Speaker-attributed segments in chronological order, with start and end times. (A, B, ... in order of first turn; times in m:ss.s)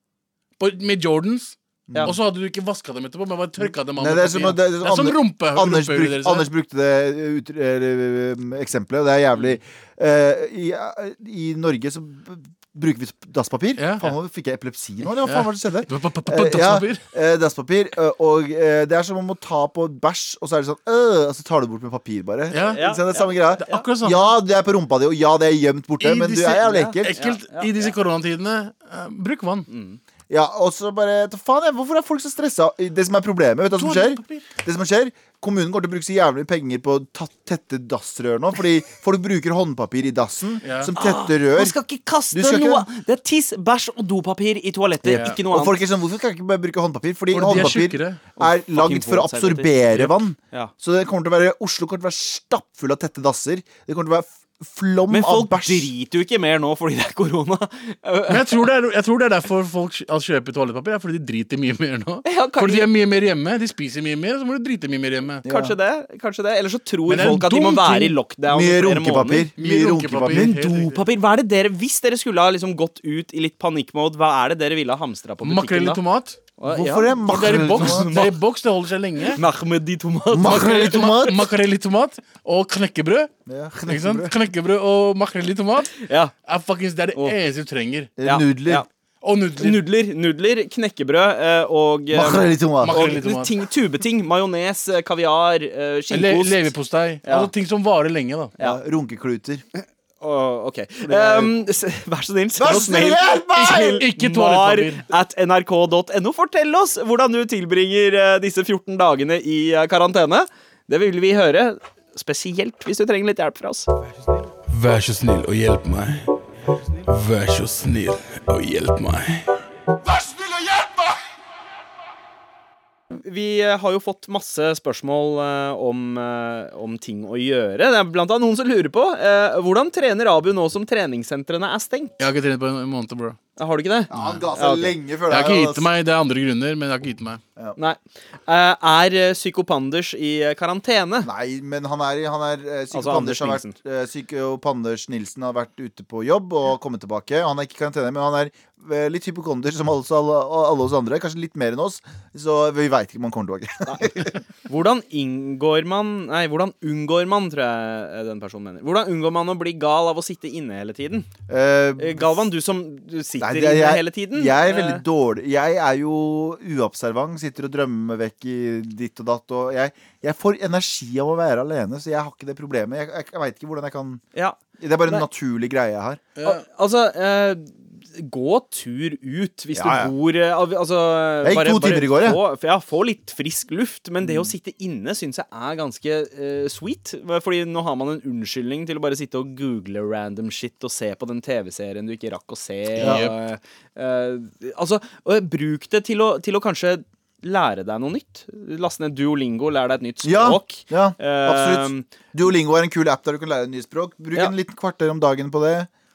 0:00.6-0:06.5 A
0:01.9-0:02.2 B
0:04.0-0:27.1 B
0:13.8-0:14.1 A
0:15.2-0:17.0 A
0:22.5-0:22.8 A
0:22.6-0:23.8 C
0:23.6-0:24.3 A
0:26.0-0:29.7 A
0:26.6-0:27.9 C
0:29.7-0:30.0 C
0:30.3-0:41.8 B
0:33.8-0:34.4 A
0:40.6-0:40.9 A
0:41.0-0:45.8 C
0:42.3-0:42.8 B
0:45.0-0:55.9 B
0:45.1-0:45.4 A
0:47.3-0:48.2 A
0:48.4-0:49.8 C
0:55.1-0:58.6 C
0:58.3-1:05.4 A
1:02.2-1:02.9 C
1:05.4-1:05.7 B
1:05.4-1:09.5 C
1:07.1-1:08.2 A
1:08.5-1:10.5 B
1:09.6-1:11.0 A
1:10.3-1:16.0 C
1:15.4-1:16.4 A
1:16.6-1:18.4 C
1:16.7-1:18.1 B
1:17.3-1:19.4 A
1:19.3-1:21.1 C
1:20.3-1:21.4 B
1:20.4-1:23.3 A
1:23.5-1:24.3 B
1:23.8-1:28.1 A
1:26.0-1:26.3 C
1:28.2-1:28.8 B
1:28.2-1:28.9 C
1:29.2-1:29.8 A
1:29.6-1:36.7 C
1:32.1-1:33.1 B
1:32.8-1:33.5 A
1:36.1-1:38.5 A
1:37.2-1:37.5 C
1:38.6-1:39.6 B
1:39.8-1:53.9 C
1:41.0-1:41.5 B
1:42.6-1:44.0 B
1:43.6-1:45.0 A
1:54.7-1:56.3 D
1:57.0-1:59.5 D
2:03.1-2:12.1 C
2:12.2-2:13.4 A
2:13.6-2:14.9 C
2:14.1-2:15.9 B
2:14.1-2:14.4 A
2:15.3-2:17.4 A
2:17.8-2:21.3 C
2:21.2-2:34.4 B
2:22.9-2:23.7 C
2:33.8-2:34.1 C
2:34.7-2:41.3 C
2:41.5-2:42.4 B
2:42.0-2:45.0 C
2:43.4-2:54.2 B
2:54.3-2:55.2 C
2:54.8-2:56.2 B
2:56.4-2:56.6 A
2:56.4-3:22.0 C
2:59.7-3:00.1 B
3:01.4-3:02.4 B
3:04.2-3:04.5 B
3:13.0-3:13.3 A
3:13.0-3:13.2 B
3:20.2-3:25.9 B